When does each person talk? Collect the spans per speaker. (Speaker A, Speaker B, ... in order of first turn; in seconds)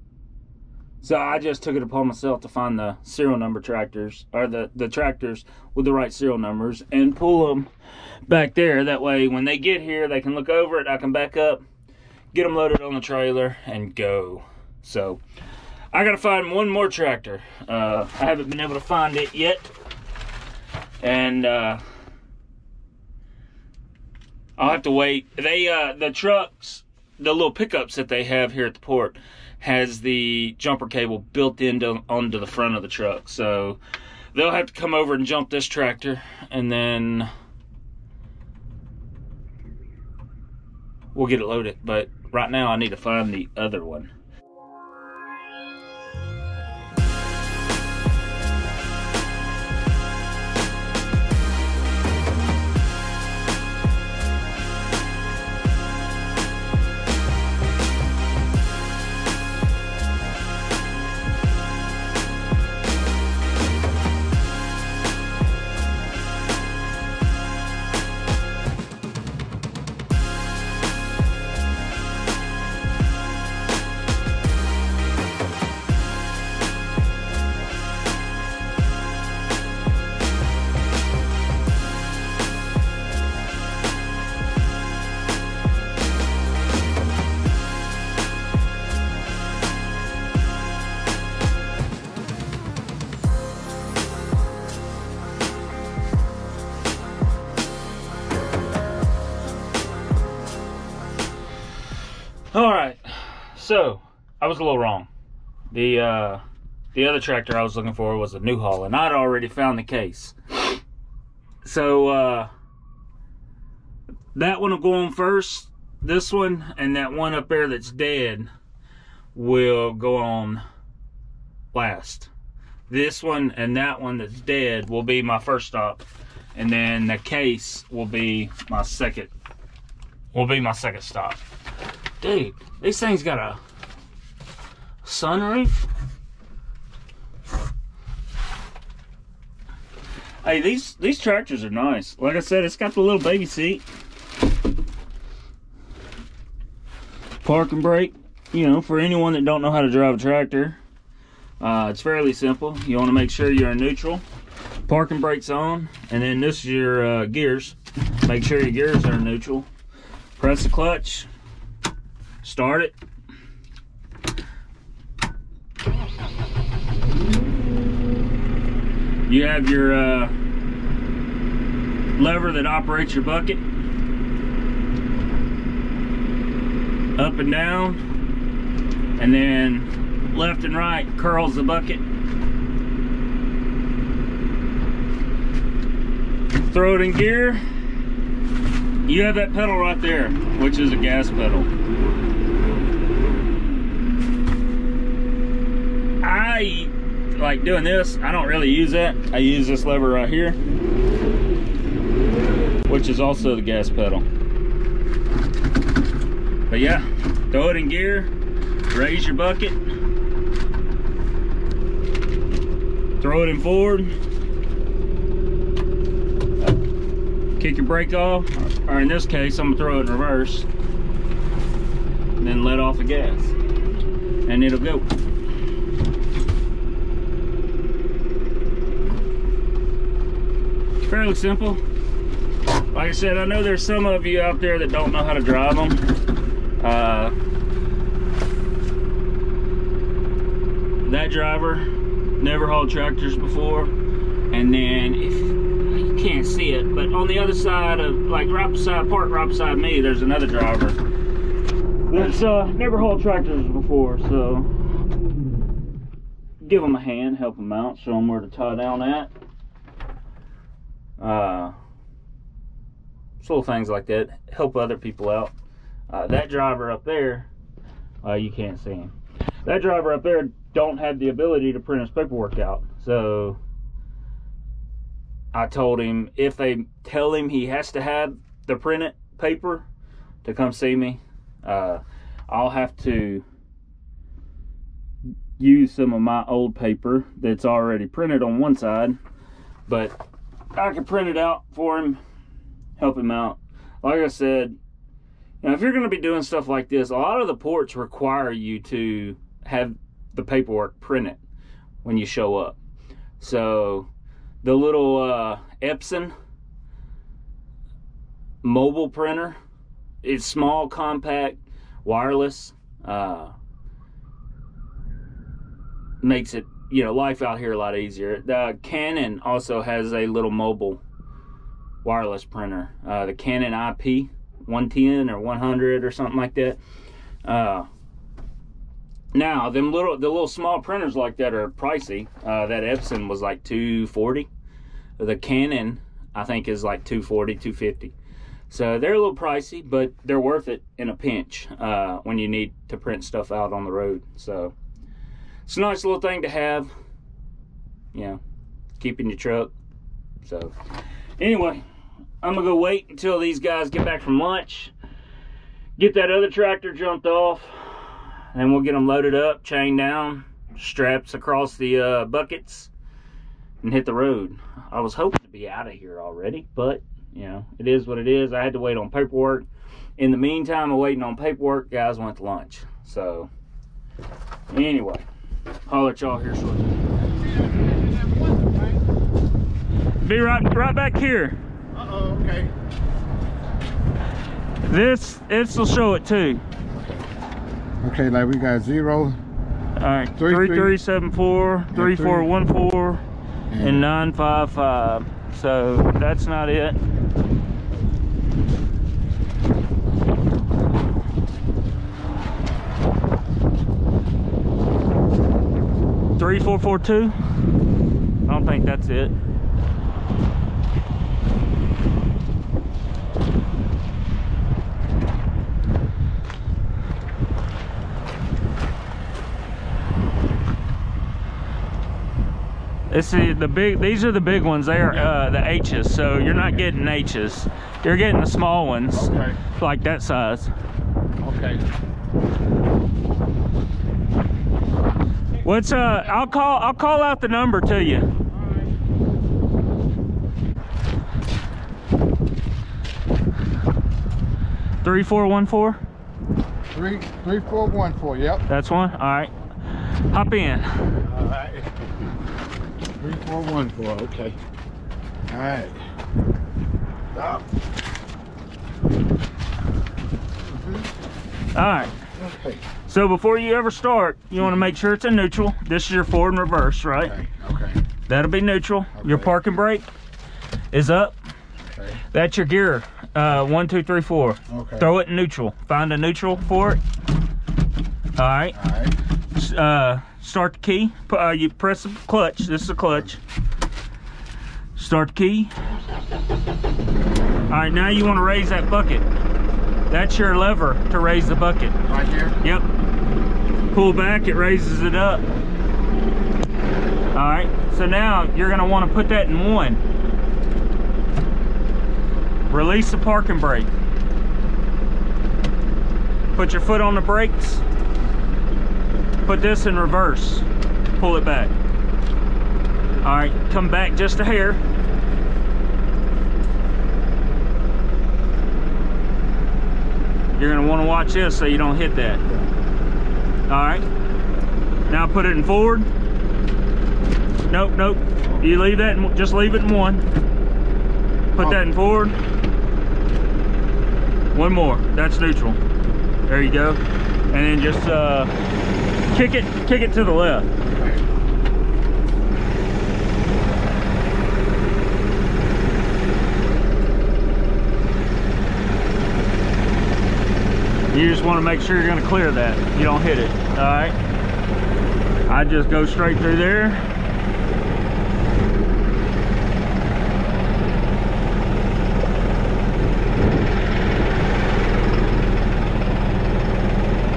Speaker A: 1.0-7.7, 8.3-11.6, 12.3-15.2, 15.9-19.7, 21.0-21.8, 24.6-33.8, 34.3-37.3, 41.1-44.1, 102.5-105.1, 105.7-106.4, 106.9-110.8, 111.6-112.5, 114.3-118.5, 119.3-120.6, 121.7-122.3, 122.9-129.3, 130.3-131.4, 132.2-133.6, 135.0-135.8, 140.4-143.8, 147.4-150.8, 151.6-154.2, 154.9-159.7, 160.4-161.3, 162.4-162.9, 169.3-170.3, 172.2-173.6, 177.2-178.0, 179.2-182.0, 186.7-187.6, 189.1-191.7, 196.2-200.6, 202.9-204.3, 206.7-208.3, 208.9-209.8, 213.2-214.1, 217.6-220.7, 222.4-223.5, 224.5-225.1, 231.0-231.8, 232.9-236.0, 236.8-237.3, 241.0-241.9, 242.4-243.9, 244.5-251.0, 252.1-254.7, 256.6-259.3, 261.2-261.8, 263.4-265.5, 266.1-267.5, 268.2-269.1, 269.6-273.6, 275.5-279.9, 280.4-283.4, 285.6-289.2, 289.9-290.2, 290.8-292.2, 293.0-294.8, 295.6-301.4, 302.0-302.8, 303.4-304.1, 304.6-306.3, 308.6-309.6, 310.2-313.5, 316.2-321.0, 322.0-326.8, 327.4-327.9, 329.3-334.5, 335.2-338.1, 338.7-344.7, 345.7-346.9, 348.1-348.4, 349.0-349.7, 350.4-350.7, 351.4-351.8, 352.4-354.9, 356.0-362.9, 363.8-369.7, 370.2-373.5, 374.7-375.2, 375.9-376.9, 380.2-381.6, 384.9-386.6, 390.0-393.2, 393.8-397.0, 406.4-407.4, 408.5-409.3, 423.1-430.7, 435.6-438.3, 445.0-446.0, 448.7-449.5, 450.3-450.9, 461.8-462.1, 463.1-467.4, 468.3-470.1, 470.9-471.4, 472.3-477.0, 478.4-478.8, 479.6-483.4, 485.0-485.7, 487.7-489.2, 490.1-492.0, 493.9-495.5, 497.3-500.0, 502.7-503.9, 506.6-507.8, 509.4-510.7, 511.2-511.7, 513.2-514.8, 520.6-522.4, 523.7-524.0, 525.1-526.1, 527.7-530.2, 531.5-532.4, 534.5-535.8, 536.5-538.5, 539.3-540.7, 551.1-554.2, 555.5-557.0
Speaker B: 377.2-379.1, 381.9-382.7, 386.9-387.2, 388.0-389.4, 390.4-391.0, 391.9-392.5, 393.7-394.1, 429.1-429.6, 431.4-431.8, 438.5-438.9, 446.9-448.6, 451.2-451.9, 453.2-454.6, 455.5-456.0, 457.3-457.6, 460.6-461.1, 462.4-462.8, 467.2-468.0, 469.1-469.5, 471.8-472.2, 474.7-475.1, 478.7-479.2, 492.1-492.6, 541.0-541.2